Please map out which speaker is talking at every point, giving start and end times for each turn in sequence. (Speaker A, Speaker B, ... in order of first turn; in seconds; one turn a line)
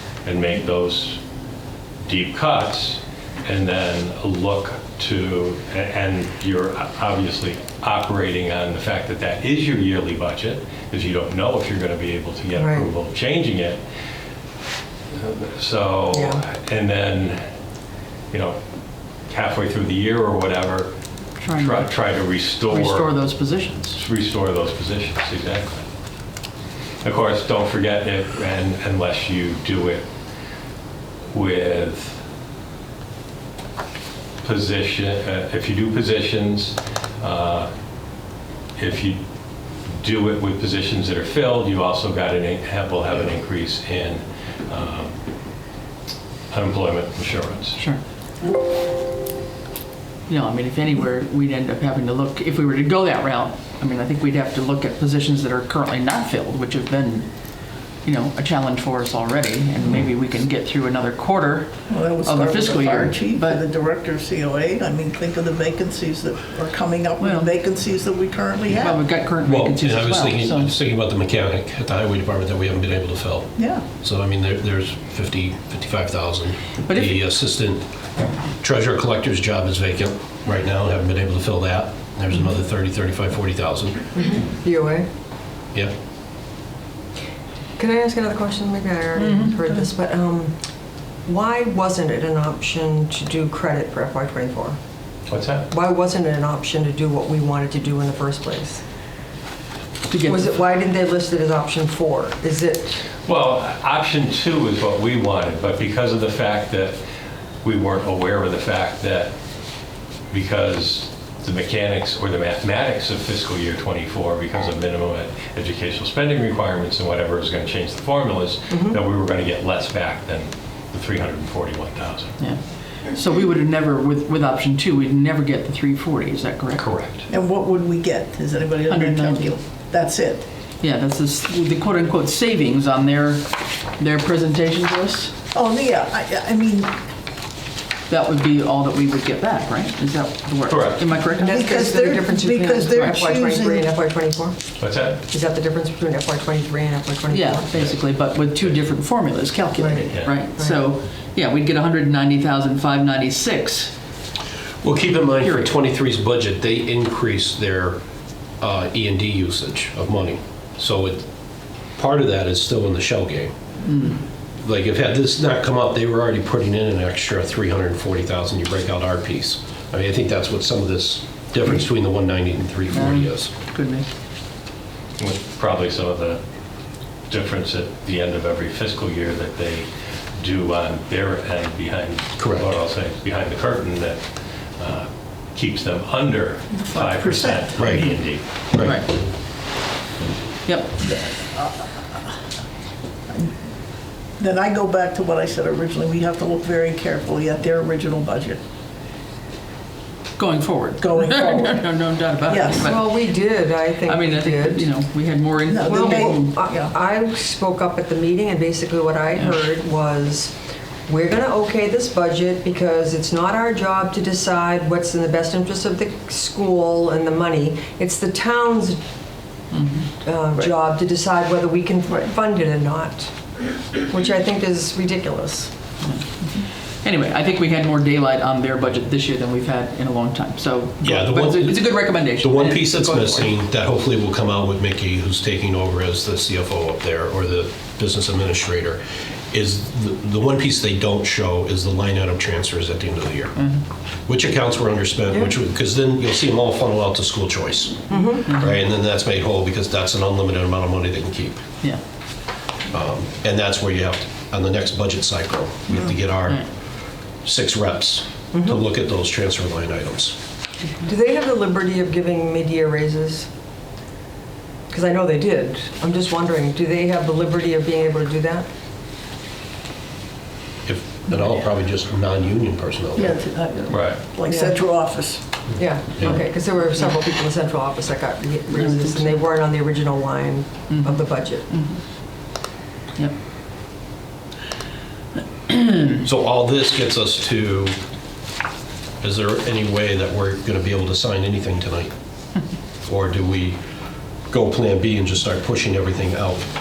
Speaker A: 0.2-1.2
Speaker A: 2.0-13.8
Speaker B: 12.6-12.9
Speaker A: 15.1-17.4
Speaker B: 16.1-16.4
Speaker A: 18.3-18.6
Speaker A: 19.3-20.9
Speaker C: 21.4-21.9
Speaker A: 21.5-23.1
Speaker C: 22.7-24.0
Speaker A: 23.9-25.9
Speaker A: 27.0-30.1
Speaker A: 31.3-32.2
Speaker A: 34.4-37.7
Speaker A: 38.8-39.2
Speaker A: 40.0-45.1
Speaker A: 46.5-47.8
Speaker C: 50.3-57.3
Speaker C: 58.0-63.6
Speaker D: 61.9-69.0
Speaker C: 67.2-67.5
Speaker C: 68.7-70.7
Speaker E: 69.4-77.8
Speaker D: 73.5-73.9
Speaker C: 76.9-77.2
Speaker E: 78.6-84.2
Speaker B: 84.1-85.1
Speaker B: 87.8-90.5
Speaker C: 89.2-89.7
Speaker B: 91.2-94.8
Speaker A: 95.3-95.7
Speaker B: 95.7-98.8
Speaker C: 100.1-100.6
Speaker B: 100.2-103.0
Speaker A: 103.2-107.0
Speaker A: 107.6-109.3
Speaker A: 110.3-122.4
Speaker B: 118.7-119.0
Speaker C: 122.4-126.9
Speaker A: 126.8-127.2
Speaker D: 127.3-130.5
Speaker C: 128.9-129.6
Speaker C: 130.8-135.3
Speaker D: 135.5-136.9
Speaker C: 138.1-141.6
Speaker A: 140.7-141.0
Speaker B: 141.4-144.6
Speaker D: 141.5-143.9
Speaker A: 144.8-145.2
Speaker B: 145.3-147.9
Speaker C: 147.3-153.9
Speaker A: 147.7-148.0
Speaker B: 149.8-150.8
Speaker A: 149.9-150.3
Speaker E: 154.8-158.0
Speaker C: 155.4-155.7
Speaker E: 158.6-161.2
Speaker E: 161.9-163.5
Speaker C: 163.8-164.2
Speaker E: 164.6-173.5
Speaker C: 172.9-174.1
Speaker A: 175.2-176.4
Speaker A: 177.3-179.9
Speaker A: 180.4-184.2
Speaker E: 182.4-182.7
Speaker A: 184.8-188.5
Speaker D: 186.8-188.0
Speaker E: 187.8-188.1
Speaker E: 188.7-189.0
Speaker C: 188.8-189.1
Speaker C: 190.7-190.9
Speaker D: 191.0-192.3
Speaker D: 194.4-198.6
Speaker C: 200.4-203.4
Speaker D: 201.0-201.9
Speaker D: 202.5-202.9
Speaker B: 202.5-204.9
Speaker C: 204.0-206.5
Speaker D: 205.7-206.9
Speaker B: 205.8-210.5
Speaker C: 209.3-209.6
Speaker B: 211.1-219.0
Speaker C: 219.7-220.1
Speaker B: 220.2-223.3
Speaker B: 224.1-225.7
Speaker C: 226.0-233.5
Speaker E: 231.0-243.6
Speaker C: 243.6-243.8
Speaker E: 244.3-251.6
Speaker B: 248.1-248.5
Speaker E: 252.9-256.8
Speaker E: 257.4-260.4
Speaker B: 258.5-258.8
Speaker B: 261.0-263.5
Speaker B: 264.9-268.7
Speaker E: 270.8-273.4
Speaker D: 273.1-275.4
Speaker A: 273.9-274.2
Speaker B: 274.4-274.8
Speaker B: 275.7-281.7
Speaker E: 276.1-276.4
Speaker C: 278.9-279.3
Speaker C: 280.9-282.0
Speaker C: 285.7-286.2
Speaker E: 286.2-287.9
Speaker E: 289.2-292.1
Speaker E: 293.1-293.8
Speaker E: 294.5-296.7